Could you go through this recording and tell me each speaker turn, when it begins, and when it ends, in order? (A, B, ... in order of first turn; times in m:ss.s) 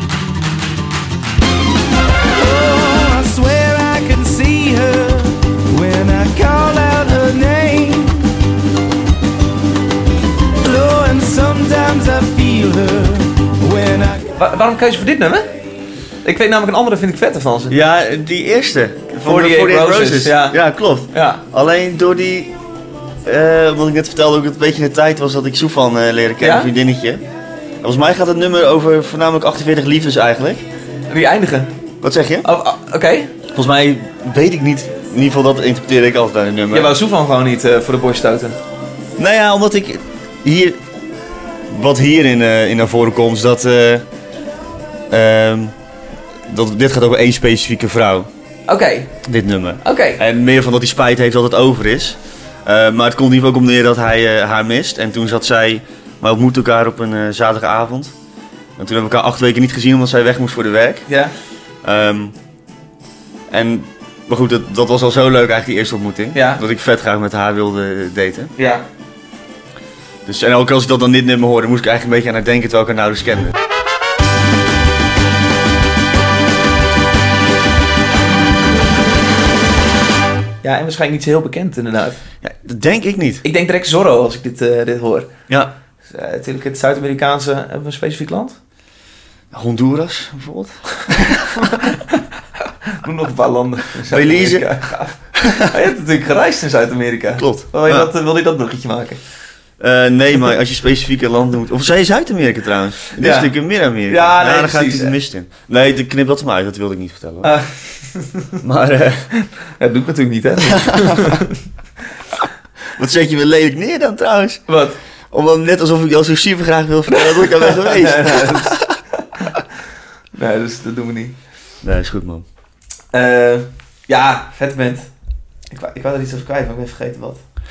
0:02.3-0:08.3 A
0:10.6-0:14.4 A
0:14.4-0:15.5 B
0:16.2-0:17.8 B
0:17.7-0:22.6 C
0:19.2-0:20.6 B
0:21.1-0:21.4 B
0:23.2-0:27.2 C
0:26.4-0:26.7 B
0:27.8-0:30.6 C
0:31.1-0:31.7 B
0:32.0-0:32.5 C
0:32.4-0:33.4 B
0:33.5-0:36.9 C
0:36.7-0:38.6 B
0:39.2-0:40.8 C
0:41.7-0:44.0 C
0:45.1-0:45.7 C
0:46.5-0:48.3 C
0:48.7-0:49.2 B
0:49.2-0:58.1 C
0:49.8-0:50.2 B
0:58.8-1:01.1 C
1:01.1-1:01.3 B
1:01.8-1:02.4 C
1:03.5-1:08.5 C
1:06.3-1:06.6 B
1:08.6-1:08.8 B
1:10.2-1:13.6 C
1:20.6-1:22.2 B
1:22.4-1:23.4 C
1:23.4-1:25.3 B
1:26.1-1:28.6 B
1:29.5-1:31.7 C
1:31.6-1:32.2 B
1:32.9-1:39.2 B
1:34.1-1:34.7 C
1:35.4-1:35.7 C
1:37.4-1:38.1 C
1:39.8-1:47.5 C
1:43.2-1:43.5 B
1:44.1-1:45.1 B
1:47.4-1:48.6 B
1:48.6-1:49.3 C
1:49.4-1:51.6 B
1:50.7-1:51.4 C
1:53.0-1:54.6 C
1:54.7-1:55.0 B
1:55.3-1:59.0 C
1:57.2-1:58.8 B
2:00.4-2:01.4 B
2:01.8-2:02.4 C
2:03.1-2:05.1 B
2:05.7-2:07.4 B